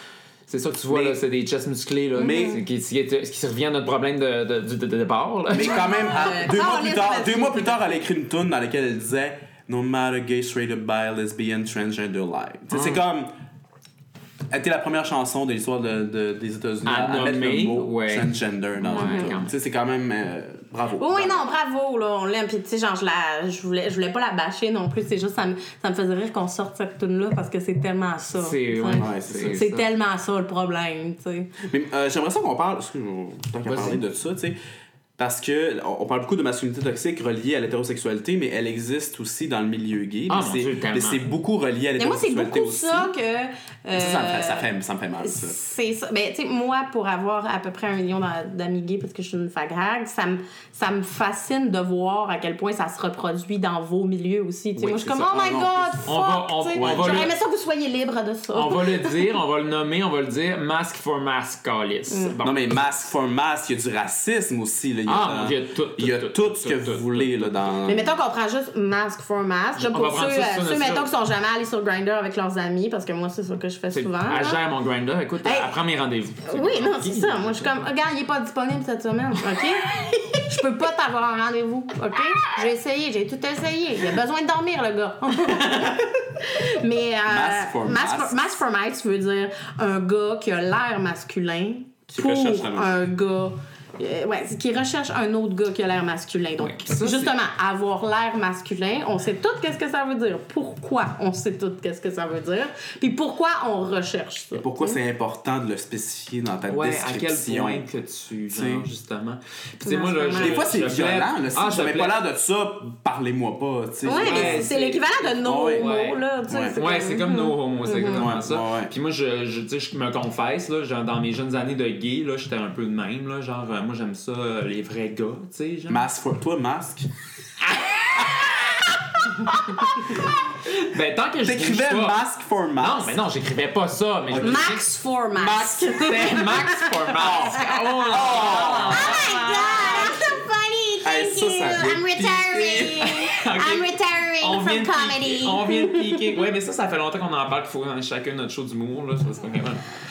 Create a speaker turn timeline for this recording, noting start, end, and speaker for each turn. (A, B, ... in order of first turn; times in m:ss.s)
0:00.5-0:06.0 A
0:00.9-0:01.2 B
0:02.2-0:02.6 B
0:02.2-0:02.6 C
0:05.5-0:13.3 B
0:05.6-0:07.7 C
0:12.7-0:13.0 A
0:14.5-0:21.4 B
0:16.8-0:19.5 A
0:19.0-0:19.3 C
0:21.0-0:31.5 C
0:28.3-0:29.8 A
0:28.9-0:29.7 B
0:31.6-0:34.6 B
0:33.6-0:34.0 A
0:35.2-0:43.1 B
0:40.3-0:41.3 A
0:42.0-0:44.7 C
0:43.9-0:45.6 B
0:45.2-0:59.3 C
0:54.8-0:57.3 A
0:55.5-0:55.9 B
0:56.8-0:57.3 B
0:58.5-1:02.6 A
1:02.4-1:08.1 B
1:05.1-1:07.8 A
1:07.9-1:14.6 C
1:09.8-1:11.1 A
1:13.9-1:17.7 A
1:15.4-1:15.7 C
1:16.5-1:45.0 C
1:27.3-1:28.4 B
1:32.1-1:33.0 B
1:36.6-1:37.3 A
1:44.6-1:47.8 B
1:46.7-1:52.2 A
1:48.5-1:48.9 B
1:49.8-1:50.6 C
1:50.4-1:54.7 B
1:54.0-1:58.3 C
1:54.1-1:55.2 A
1:55.4-1:55.9 B
1:55.8-1:56.2 A
1:56.5-1:56.8 B
1:56.8-2:06.1 A
1:58.1-1:58.9 B
2:05.9-2:07.1 B
2:07.8-2:08.5 A
2:09.7-2:10.0 A
2:10.8-2:12.2 A
2:11.4-2:13.2 B
2:12.8-2:14.8 A
2:14.3-2:14.7 B
2:14.4-2:18.0 C
2:15.3-2:16.0 B
2:15.9-2:20.3 A
2:17.2-2:19.3 B
2:18.9-2:26.2 C
2:21.0-2:23.1 B
2:23.0-2:29.9 A